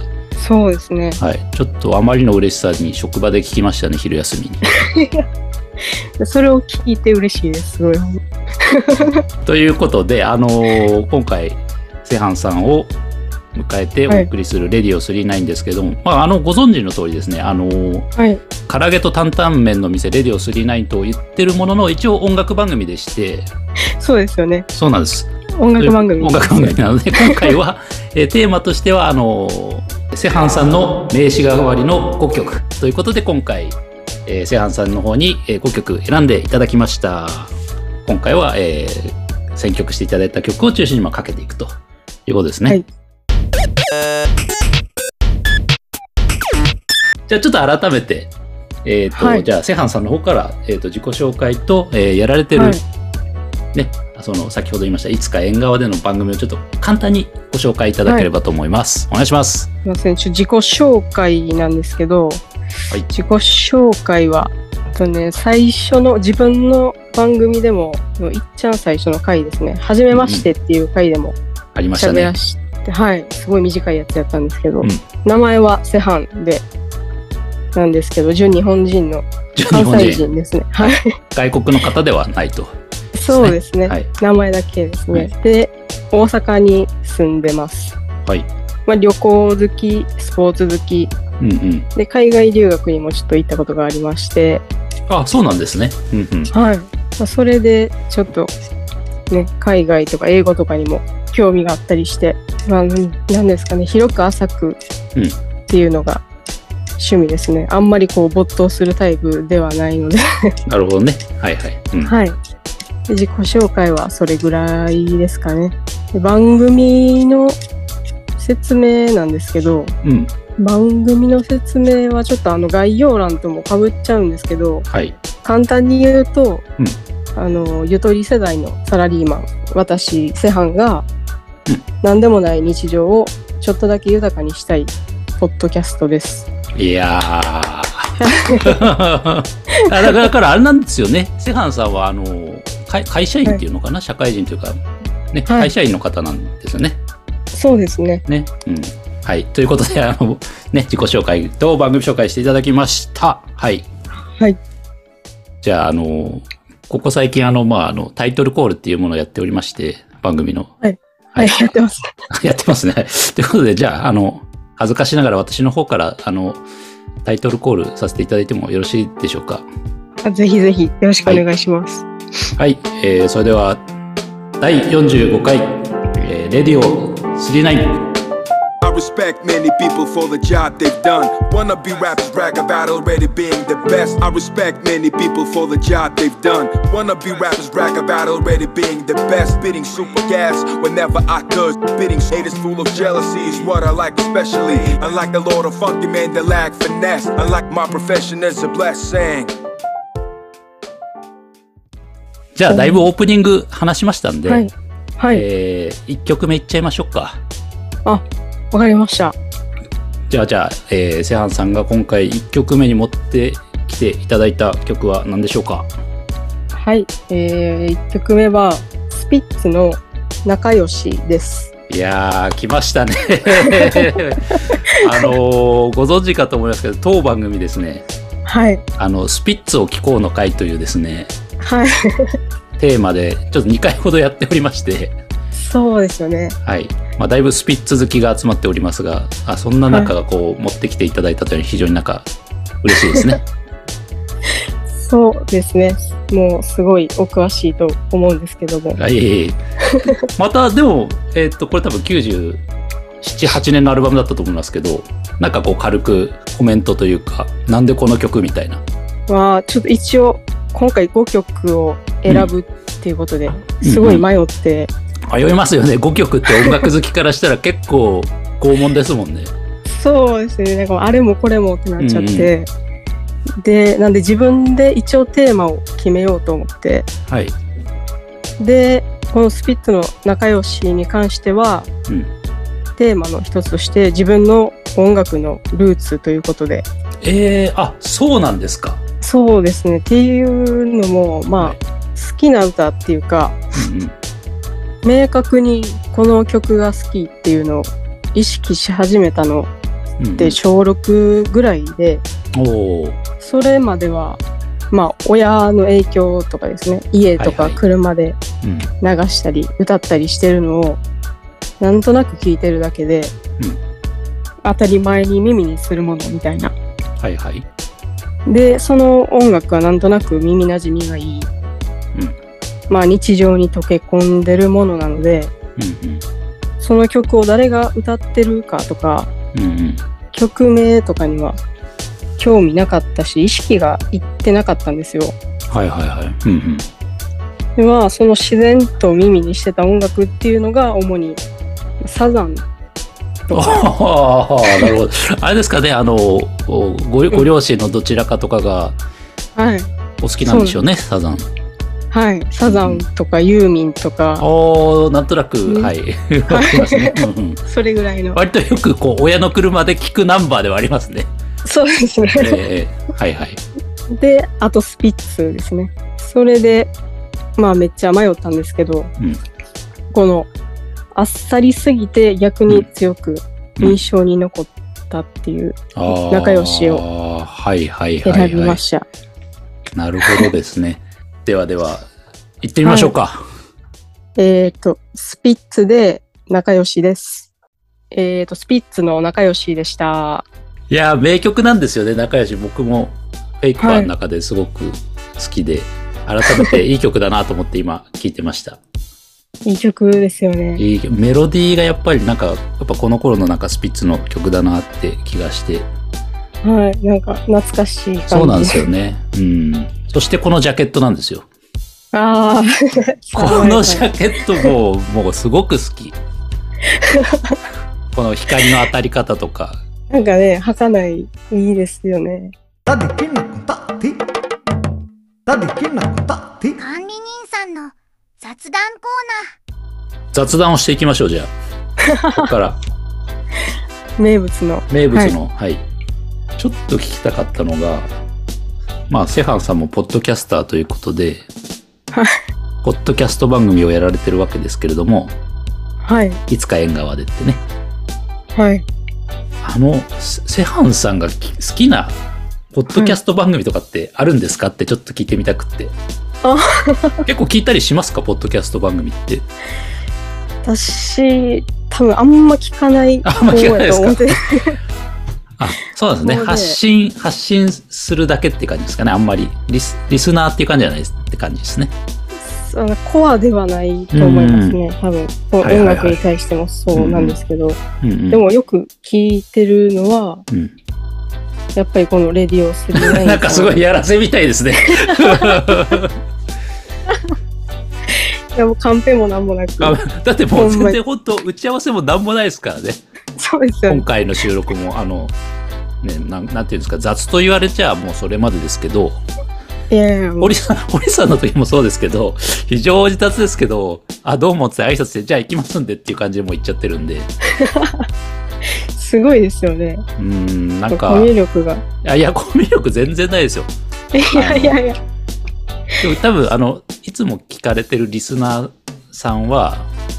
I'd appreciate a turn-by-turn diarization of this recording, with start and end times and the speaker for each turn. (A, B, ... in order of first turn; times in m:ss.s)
0:00.4-0:01.2 A
0:01.2-0:04.6 B
0:04.8-0:05.2 A
0:06.2-0:09.2 A
0:09.4-0:12.9 B
0:13.5-0:18.1 B
0:18.2-0:18.4 A
0:18.6-0:23.5 B
0:24.0-0:24.7 A
0:24.7-0:37.5 B
0:25.6-0:27.5 A
0:38.0-0:42.8 B
0:47.3-0:48.3 B
0:48.8-0:52.8 B
0:49.1-0:49.4 A
0:52.5-0:52.8 A
0:53.7-0:59.7 B
0:59.8-1:02.4 A
1:03.1-1:11.4 A
1:10.1-1:10.5 B
1:11.7-1:12.3 B
1:11.9-1:16.6 A
1:17.7-1:21.1 A
1:19.6-1:20.2 B
1:21.3-1:22.7 B
1:23.1-1:28.0 A
1:23.3-1:24.1 B
1:28.8-1:31.1 A
1:31.4-1:31.9 B
1:31.9-1:34.6 A
1:35.1-1:36.5 B
1:36.5-1:38.5 A
1:39.3-1:44.8 A
1:45.7-1:46.2 A
1:47.0-1:50.2 A
1:50.7-1:52.1 B
1:52.0-1:52.4 A
1:53.1-1:57.6 A
1:58.4-1:59.9 A
2:00.0-2:00.3 B
2:00.6-2:04.8 A
2:04.9-2:05.2 B
2:05.4-2:06.6 A
2:07.4-2:11.0 A
2:12.0-2:16.5 A
2:16.7-2:24.8 B
2:18.2-2:18.8 A
2:19.9-2:20.2 A
2:25.3-2:27.0 B
2:25.5-2:25.7 A
2:27.5-2:28.2 A
2:28.3-2:33.9 B
2:34.3-2:34.6 A
2:35.6-2:40.7 B
2:40.8-2:42.1 A
2:41.3-2:41.7 B
2:42.3-2:46.6 B
2:47.2-2:49.6 B
2:50.2-2:52.1 A
2:52.6-2:53.8 B
2:54.6-2:58.0 B
2:58.8-3:19.5 C
3:22.5-3:24.6 B
3:22.7-3:23.0 A
3:24.5-3:25.4 A
3:25.3-3:27.4 B
3:28.0-3:29.3 A
3:30.3-3:35.9 B
3:36.7-3:41.7 A
3:41.9-3:48.0 B
3:43.6-3:44.1 A
3:45.0-3:45.3 A
3:48.5-3:48.8 A
3:49.0-3:51.3 B
3:51.6-3:52.4 A
3:52.8-3:55.2 B
3:55.5-3:56.6 A
3:56.6-4:02.3 B
4:02.8-4:03.4 B
4:03.0-4:03.4 A
4:04.9-4:09.0 A
4:09.0-4:12.6 B
4:13.2-4:18.8 B
4:19.3-4:24.9 A
4:23.8-4:24.2 B
4:25.3-4:29.5 B
4:26.5-4:26.9 A
4:29.8-4:32.7 A
4:32.0-4:32.5 B
4:33.6-4:37.1 A
4:37.3-4:37.5 B
4:38.6-4:41.9 A
4:43.0-4:46.8 A
4:47.2-4:49.0 B
4:49.2-4:53.6 A
4:53.8-4:54.1 B
4:55.0-4:59.7 A
5:00.2-5:00.6 B
5:00.4-5:02.2 A
5:02.5-5:03.2 B
5:03.4-5:08.4 A
5:07.4-5:07.8 B
5:08.6-5:08.9 B
5:09.0-5:11.0 A
5:11.8-5:13.3 A
5:14.6-5:16.7 A
5:17.2-5:17.6 B
5:18.4-5:21.5 A
5:22.9-5:25.5 A
5:25.8-5:26.2 B
5:26.8-5:29.3 A
5:29.5-5:30.0 B
5:30.3-5:31.6 A
5:32.4-5:35.3 A
5:35.7-5:36.9 B
5:37.8-5:41.4 A
5:42.0-5:42.6 A
5:43.5-5:43.8 A
5:43.5-5:49.0 B
5:44.6-5:44.9 A
5:49.6-5:49.9 A
5:50.2-5:51.5 B
5:50.4-5:50.8 A
5:52.1-5:54.4 A
5:52.6-5:53.0 B
5:54.4-5:57.6 B
5:56.5-5:58.4 A
5:58.3-6:01.3 B
6:01.6-6:02.6 A
6:02.4-6:03.6 B
6:04.1-6:06.9 A
6:07.6-6:09.1 A
6:10.1-6:10.5 A
6:11.1-6:17.0 A
6:15.9-6:18.8 B
6:18.2-6:19.0 A
6:20.0-6:22.1 B
6:22.6-6:23.4 B
6:22.8-6:23.1 A
6:24.4-6:27.5 A
6:28.1-6:30.4 A
6:30.9-6:38.8 B
6:33.8-6:34.1 A
6:36.5-6:36.8 A
6:39.6-6:40.8 A
6:40.8-6:45.9 B
6:46.6-6:48.9 A
6:48.3-6:51.4 B
6:52.1-6:54.0 A
6:53.4-6:56.2 B
6:56.9-6:57.6 A
6:58.1-6:59.8 B
7:00.1-7:02.5 A
7:02.8-7:04.1 D
7:05.5-7:06.8 D
7:06.8-7:09.5 E
7:10.3-7:11.5 B
7:12.0-7:12.5 A
7:12.3-7:12.8 B
7:14.2-7:15.3 A
7:14.9-7:15.8 B
7:16.6-7:18.1 B
7:19.1-7:21.5 B
7:22.1-7:22.4 A
7:22.8-7:25.3 B
7:26.0-7:26.4 A
7:26.5-7:27.6 B
7:28.5-7:28.9 A
7:29.6-7:32.2 B
7:32.7-7:35.9 B
7:32.9-7:33.2 A
7:36.4-7:37.2 A
7:37.2-7:39.4 B
7:40.6-7:44.8 A
7:43.2-7:44.4 B
7:45.6-7:51.9 B
7:46.2-7:46.8 A
7:52.4-7:57.8 A
7:54.1-7:54.8 B
7:55.6-7:56.2 B
7:56.9-7:57.4 B
7:58.0-7:58.4 B
7:58.3-8:00.4 A
8:01.7-8:03.8 A
8:02.9-8:06.2 B
8:04.9-8:05.6 A
8:07.1-8:07.3 A
8:08.1-8:10.0 A
8:09.8-8:13.0 B
8:10.5-8:11.0 A
8:13.4-8:14.0 A
8:13.9-8:15.3 B
8:16.0-8:19.2 B
8:19.9-8:20.5 A
8:20.4-8:27.3 B
8:27.5-8:28.1 A
8:28.6-8:30.0 A
8:30.2-8:31.3 B
8:30.9-8:31.8 A
8:32.0-8:33.7 B
8:34.1-8:35.0 A
8:34.3-8:34.8 B
8:36.0-8:39.9 B